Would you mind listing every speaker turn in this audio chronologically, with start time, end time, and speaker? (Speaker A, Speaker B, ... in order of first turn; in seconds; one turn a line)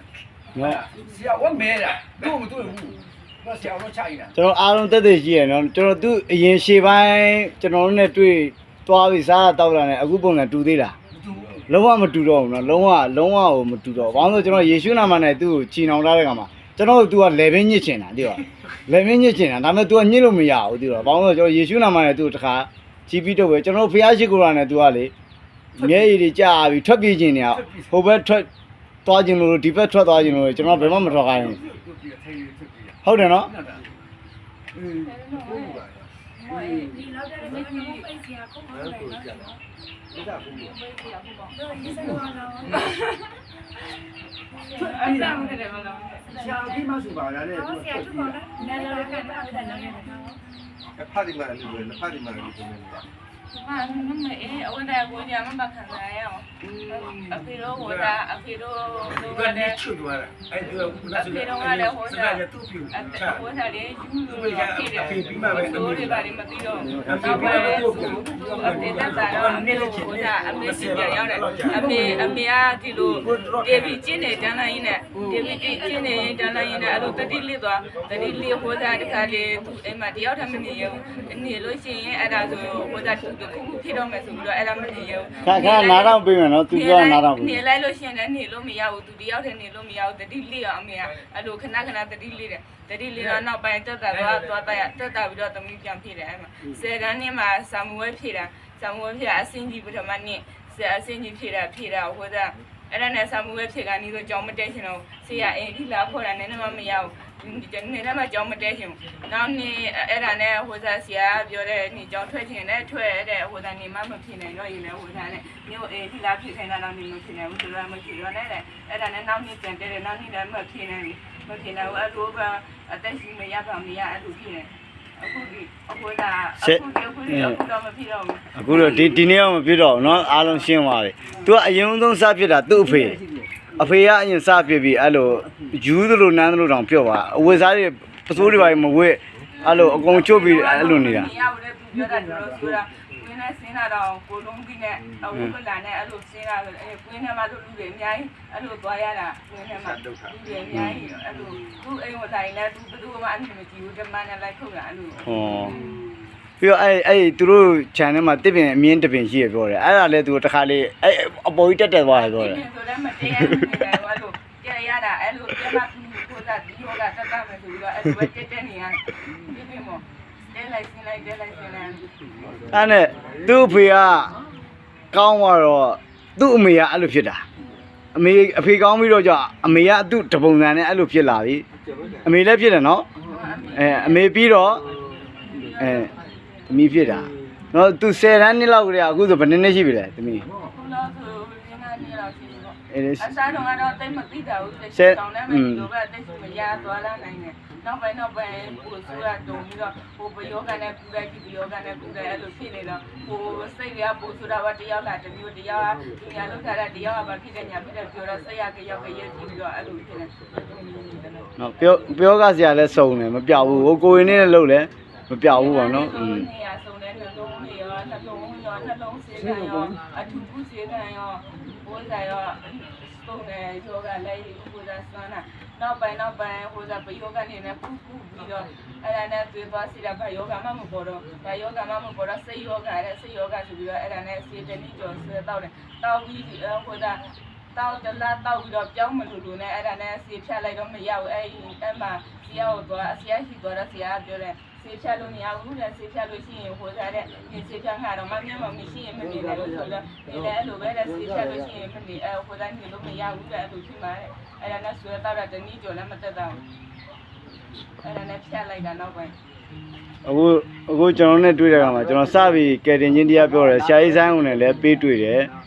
Speaker A: 0.5-4.3
Speaker B: 0.6-0.8
Speaker B: 4.3-10.9
Speaker A: 11.1-11.7
Speaker B: 11.7-25.1
Speaker A: 25.8-26.2
Speaker B: 25.8-28.5
Speaker A: 27.5-27.9
Speaker B: 29.0-31.6
Speaker A: 30.7-33.8
Speaker B: 33.0-33.5
Speaker C: 35.0-39.6
Speaker D: 35.2-36.0
Speaker A: 36.5-37.0
Speaker E: 36.9-38.2
Speaker D: 38.7-39.5
Speaker D: 40.2-40.7
Speaker C: 40.4-43.3
Speaker E: 41.5-42.8
Speaker C: 44.7-46.9
Speaker A: 44.7-45.5
Speaker A: 46.3-48.4
Speaker C: 47.7-50.0
Speaker D: 47.8-48.4
Speaker E: 48.5-50.3
Speaker D: 51.0-53.0
Speaker C: 53.5-59.8
Speaker A: 56.6-57.4
Speaker F: 57.7-58.2
Speaker F: 59.1-63.5
Speaker C: 61.1-128.8
Speaker F: 64.2-66.3
Speaker F: 67.0-72.4
Speaker A: 67.0-69.5
Speaker A: 71.6-72.4
Speaker F: 73.1-74.2
Speaker A: 75.1-77.3
Speaker E: 75.5-76.3
Speaker F: 76.6-77.5
Speaker E: 78.6-79.7
Speaker E: 80.6-81.2
Speaker B: 85.4-87.6
Speaker F: 93.2-93.4
Speaker F: 94.1-94.6
Speaker B: 126.6-127.6
Speaker B: 128.6-133.2
Speaker C: 130.2-130.6
Speaker B: 133.8-141.3
Speaker C: 139.6-155.3
Speaker D: 149.9-150.3
Speaker B: 150.7-151.0
Speaker B: 155.2-155.8
Speaker B: 156.6-162.6
Speaker C: 162.1-172.1
Speaker D: 172.4-173.5
Speaker B: 172.7-174.3
Speaker B: 175.1-177.4
Speaker B: 178.1-181.7
Speaker B: 182.2-183.1
Speaker C: 183.2-186.7
Speaker B: 183.7-184.8
Speaker B: 185.8-186.1
Speaker B: 186.7-190.4
Speaker C: 190.6-212.1
Speaker B: 192.9-193.3
Speaker B: 194.9-195.9
Speaker B: 211.6-216.5
Speaker C: 215.5-256.6
Speaker D: 249.2-250.5
Speaker D: 251.2-251.5
Speaker C: 258.0-259.3
Speaker B: 260.2-265.5